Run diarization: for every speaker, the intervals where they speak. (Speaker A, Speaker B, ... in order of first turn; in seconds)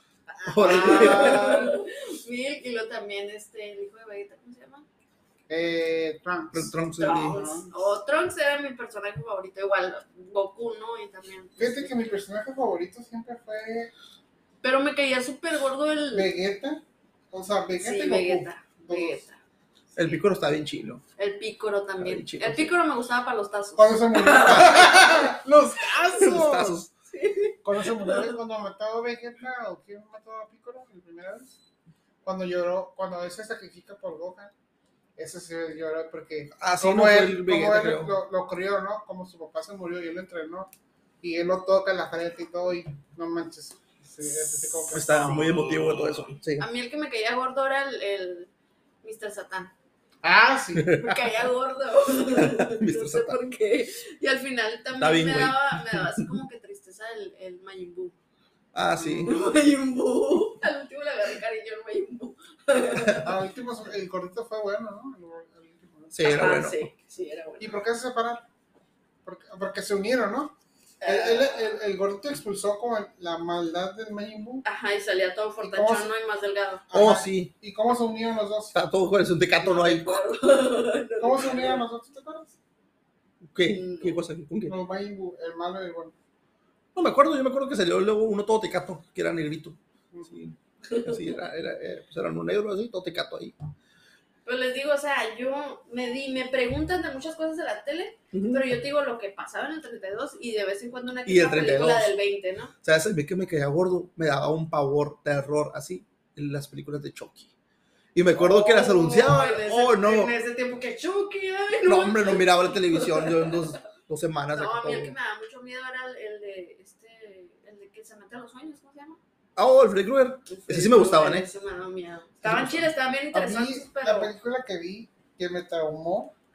Speaker A: 0.3-4.8, 6.9-12.2, 14.6-16.3, 17.8-19.4, 21.2-25.1, 27.1-28.3, 44.2-48.5, 49.0-49.7, 50.9-58.1, 59.0-63.4, 66.2-67.8, 71.0-71.8, 74.6-76.8, 79.6-81.8, 83.6-84.2, 90.9-91.2, 94.4-102.7, 108.3-113.6, 114.5-119.2, 120.5-124.3
Speaker B: 0.4-1.6, 6.5-7.4, 19.9-21.0, 22.0-22.7, 24.4-24.8, 26.2-26.9, 36.5-38.2, 44.9-46.7, 52.2-53.4, 55.0-56.0, 58.7-59.4, 66.1-66.9, 76.9-77.5, 78.7-80.2, 83.5-84.7, 86.9-93.6, 98.3-98.7, 101.2-102.1, 102.8-107.5, 108.1-110.3, 111.8-115.2, 119.5-121.5, 122.4-122.8
Speaker C: 0.6-1.8, 5.5-6.8, 7.3-7.8, 11.6-13.9, 16.1-19.2, 23.8-26.9, 27.6-31.6, 32.2-34.5, 35.2-40.7, 41.2-45.6, 50.2-50.9, 63.2-66.3, 67.6-68.5, 69.2-74.6, 75.6-76.1, 76.9-78.8, 81.2-82.5, 84.7-86.1, 90.1-90.4, 123.3-126.3